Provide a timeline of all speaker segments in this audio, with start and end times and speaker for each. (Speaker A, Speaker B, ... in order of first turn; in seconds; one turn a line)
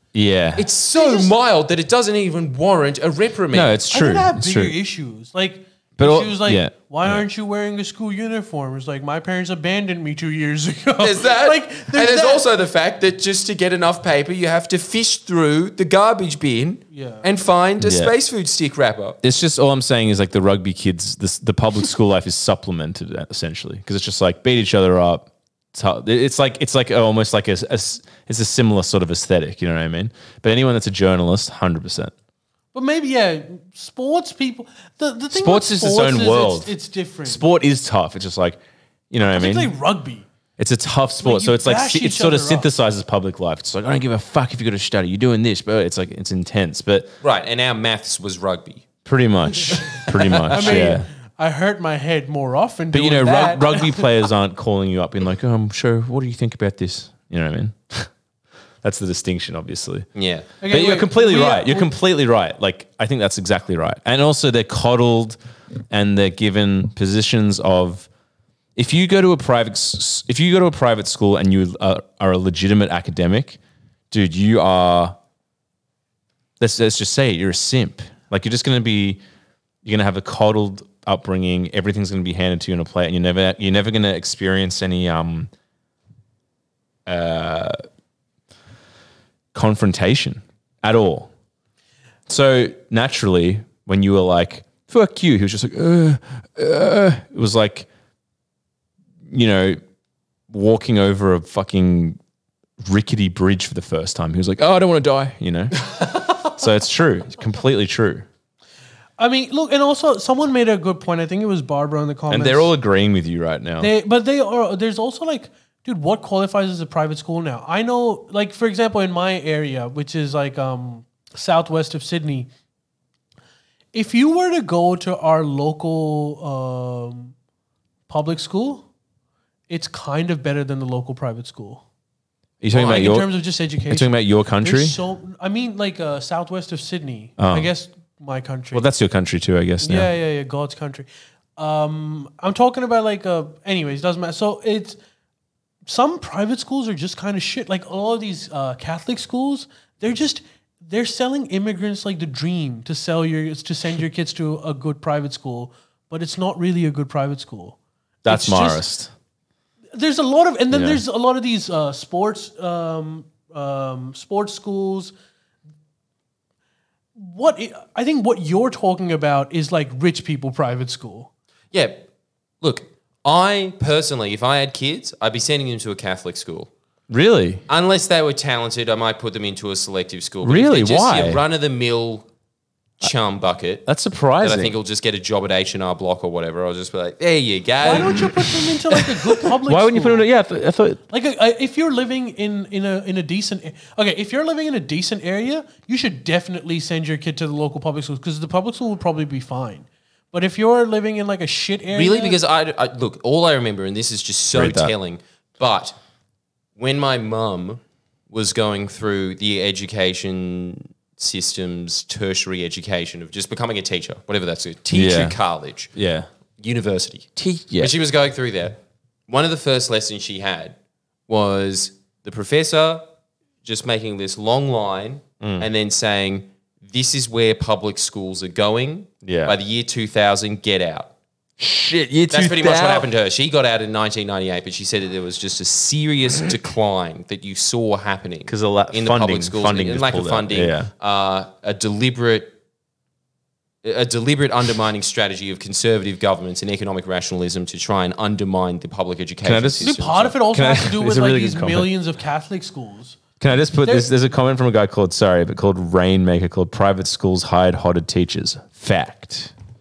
Speaker A: 0.1-0.7
Speaker B: 0.6-3.8
Speaker C: 0.9-1.3
Speaker A: 3.5-4.7
Speaker C: 3.9-12.4
Speaker A: 6.0-7.2
Speaker B: 11.0-19.2
Speaker C: 16.9-17.2
Speaker A: 17.8-18.1
Speaker A: 19.2-32.1
Speaker C: 32.7-37.4
Speaker A: 35.3-36.7
Speaker A: 37.2-38.6
Speaker A: 39.1-39.7
Speaker C: 39.2-40.2
Speaker A: 40.6-47.1
Speaker C: 41.2-42.7
Speaker B: 47.2-48.9
Speaker A: 49.0-51.1
Speaker B: 49.9-50.9
Speaker C: 50.5-54.1
Speaker A: 52.9-58.1
Speaker A: 58.8-60.1
Speaker B: 60.1-60.5
Speaker C: 60.6-61.9
Speaker A: 60.7-65.4
Speaker A: 65.9-68.1
Speaker A: 68.8-73.6
Speaker A: 74.1-75.2
Speaker A: 76.6-79.2
Speaker A: 79.8-85.5
Speaker A: 87.0-87.8
Speaker A: 89.5-91.3
Speaker A: 92.3-97.9
Speaker A: 99.3-99.8
Speaker A: 100.5-102.2
Speaker A: 102.8-108.3
Speaker C: 109.2-112.7
Speaker A: 112.3-113.9
Speaker C: 113.8-122.5
Speaker C: 123.9-127.3
Speaker C: 128.1-128.8
Speaker C: 129.7-131.8
Speaker A: 132.6-133.3
Speaker C: 132.7-138.9
Speaker A: 133.9-135.0
Speaker A: 137.4-137.7
Speaker A: 138.7-140.1
Speaker C: 139.8-145.0
Speaker C: 145.8-158.8
Speaker A: 158.2-159.1
Speaker C: 159.9-165.1
Speaker A: 160.7-161.0
Speaker C: 167.2-171.3
Speaker B: 171.7-172.1
Speaker B: 172.6-176.7
Speaker A: 177.1-177.6
Speaker B: 177.7-182.2
Speaker A: 180.4-181.4
Speaker B: 183.0-183.9
Speaker A: 183.8-184.7
Speaker B: 184.4-188.5
Speaker C: 187.8-190.2
Speaker A: 189.7-191.0
Speaker C: 191.1-202.4
Speaker B: 201.9-206.0
Speaker A: 204.5-204.9
Speaker B: 206.8-215.9
Speaker A: 214.9-215.4
Speaker A: 215.9-216.3
Speaker B: 216.6-220.8
Speaker A: 217.4-217.9
Speaker B: 221.3-223.1
Speaker B: 223.6-231.1
Speaker A: 225.4-225.7
Speaker A: 229.2-229.6
Speaker A: 231.6-233.1
Speaker B: 232.3-242.5
Speaker A: 238.5-240.9
Speaker B: 243.8-250.4
Speaker A: 249.4-251.9
Speaker C: 249.8-253.2
Speaker A: 253.4-259.5
Speaker C: 253.8-254.1